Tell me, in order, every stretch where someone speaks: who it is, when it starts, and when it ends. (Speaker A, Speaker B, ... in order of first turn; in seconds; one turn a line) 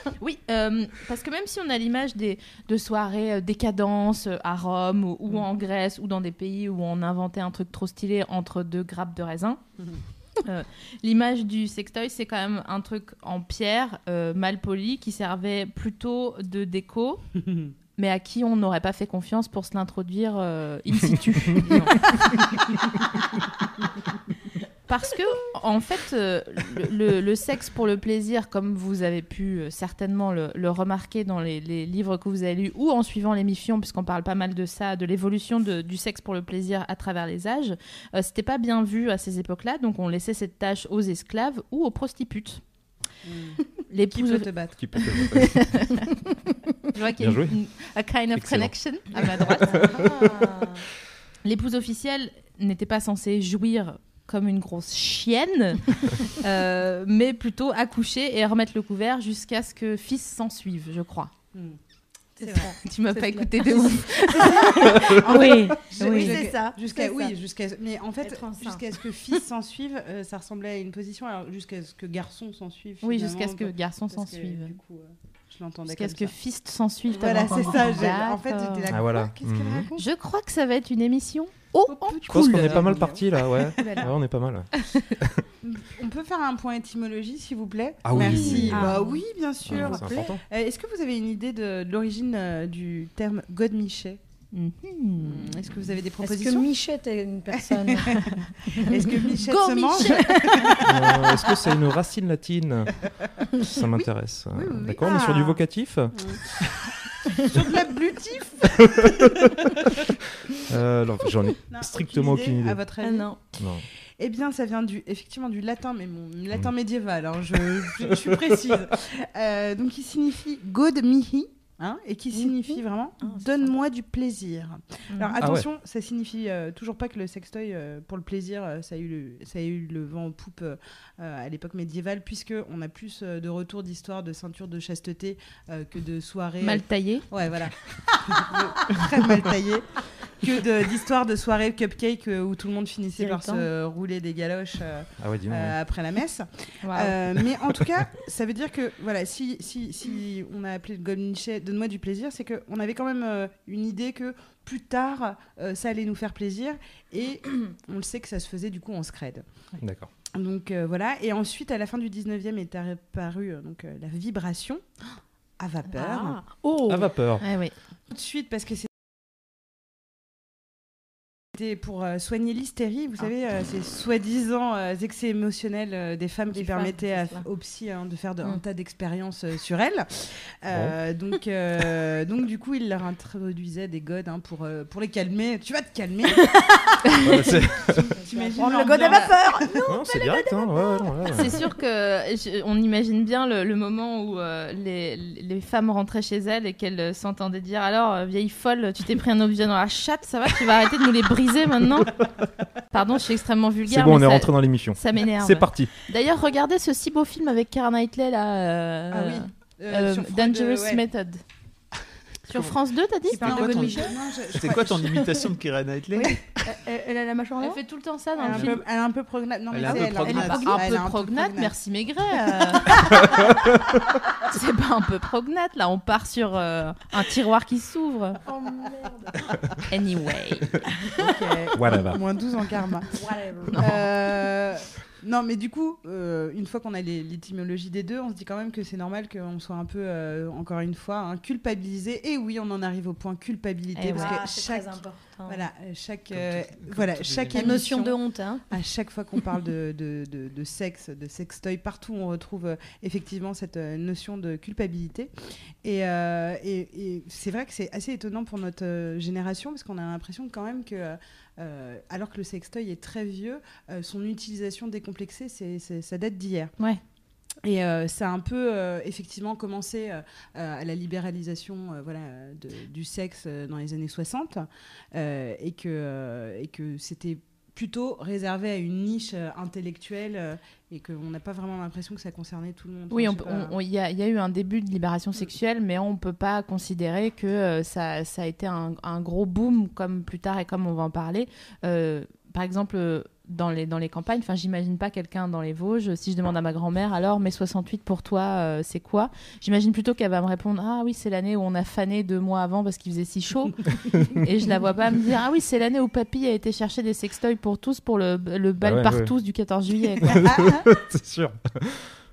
Speaker A: 0.2-9.6
Speaker A: 10.4-17.2
Speaker A: 18.0-22.4
Speaker B: 21.3-21.9
Speaker A: 24.9-42.6
Speaker C: 43.2-44.8
Speaker A: 43.9-44.5
Speaker B: 44.8-46.0
Speaker A: 45.2-46.1
Speaker A: 46.9-50.0
Speaker B: 47.2-47.6
Speaker B: 48.4-50.1
Speaker D: 49.7-50.9
Speaker A: 51.4-61.3
Speaker C: 61.5-61.8
Speaker D: 62.4-67.3
Speaker C: 62.4-62.7
Speaker A: 62.8-66.4
Speaker C: 64.3-76.3
Speaker D: 68.2-68.8
Speaker A: 73.0-74.8
Speaker A: 75.9-78.9
Speaker C: 77.1-80.1
Speaker B: 78.9-79.9
Speaker A: 80.0-82.9
Speaker C: 81.9-84.1
Speaker B: 82.3-85.5
Speaker A: 83.8-84.0
Speaker A: 84.8-85.0
Speaker C: 85.6-94.2
Speaker B: 88.0-89.0
Speaker D: 88.2-89.2
Speaker B: 89.7-90.4
Speaker D: 89.7-90.4
Speaker A: 94.5-95.5
Speaker C: 95.2-96.7
Speaker D: 96.2-99.1
Speaker C: 97.5-101.7
Speaker A: 99.4-100.3
Speaker D: 100.0-100.9
Speaker B: 100.8-103.0
Speaker B: 103.6-106.7
Speaker C: 103.9-105.6
Speaker C: 106.1-106.5
Speaker C: 107.3-109.9
Speaker B: 108.8-109.7
Speaker B: 110.6-112.8
Speaker C: 111.7-113.3
Speaker D: 113.0-113.4
Speaker B: 113.6-113.9
Speaker C: 114.2-159.4
Speaker B: 117.6-118.4
Speaker D: 122.3-123.7
Speaker A: 125.1-125.4
Speaker B: 125.4-125.7
Speaker A: 136.6-137.3
Speaker D: 143.2-143.7
Speaker B: 145.2-145.8
Speaker A: 146.8-147.2
Speaker B: 159.8-160.1
Speaker C: 160.3-164.8
Speaker C: 165.6-166.4
Speaker D: 165.9-167.1
Speaker B: 166.9-167.4
Speaker A: 167.4-167.7
Speaker C: 168.1-168.9
Speaker C: 171.5-186.6
Speaker D: 176.5-177.5
Speaker B: 180.7-181.0
Speaker D: 186.3-191.7
Speaker B: 187.2-188.1
Speaker C: 188.2-189.8
Speaker B: 189.9-191.6
Speaker A: 191.3-202.2
Speaker A: 202.9-211.4
Speaker B: 203.9-205.9
Speaker C: 209.1-211.0
Speaker A: 212.5-214.1
Speaker E: 213.3-216.4
Speaker C: 213.3-215.2
Speaker D: 215.2-215.5
Speaker D: 216.1-217.8
Speaker A: 217.6-218.8
Speaker C: 218.4-221.8
Speaker E: 219.7-220.7
Speaker D: 219.9-220.8
Speaker A: 220.3-223.3
Speaker A: 224.4-228.4
Speaker D: 228.4-229.6
Speaker A: 229.9-230.8
Speaker C: 231.2-233.1
Speaker B: 231.7-232.2
Speaker D: 233.1-234.0
Speaker A: 233.7-234.1
Speaker C: 233.8-248.2
Speaker A: 244.0-244.4
Speaker D: 244.1-245.6
Speaker E: 246.3-247.7
Speaker D: 247.5-248.7
Speaker C: 248.7-255.3
Speaker C: 255.8-266.8
Speaker C: 267.6-283.8
Speaker A: 283.1-303.8
Speaker A: 304.3-310.5
Speaker B: 308.8-309.3
Speaker B: 310.2-312.1
Speaker C: 310.3-310.9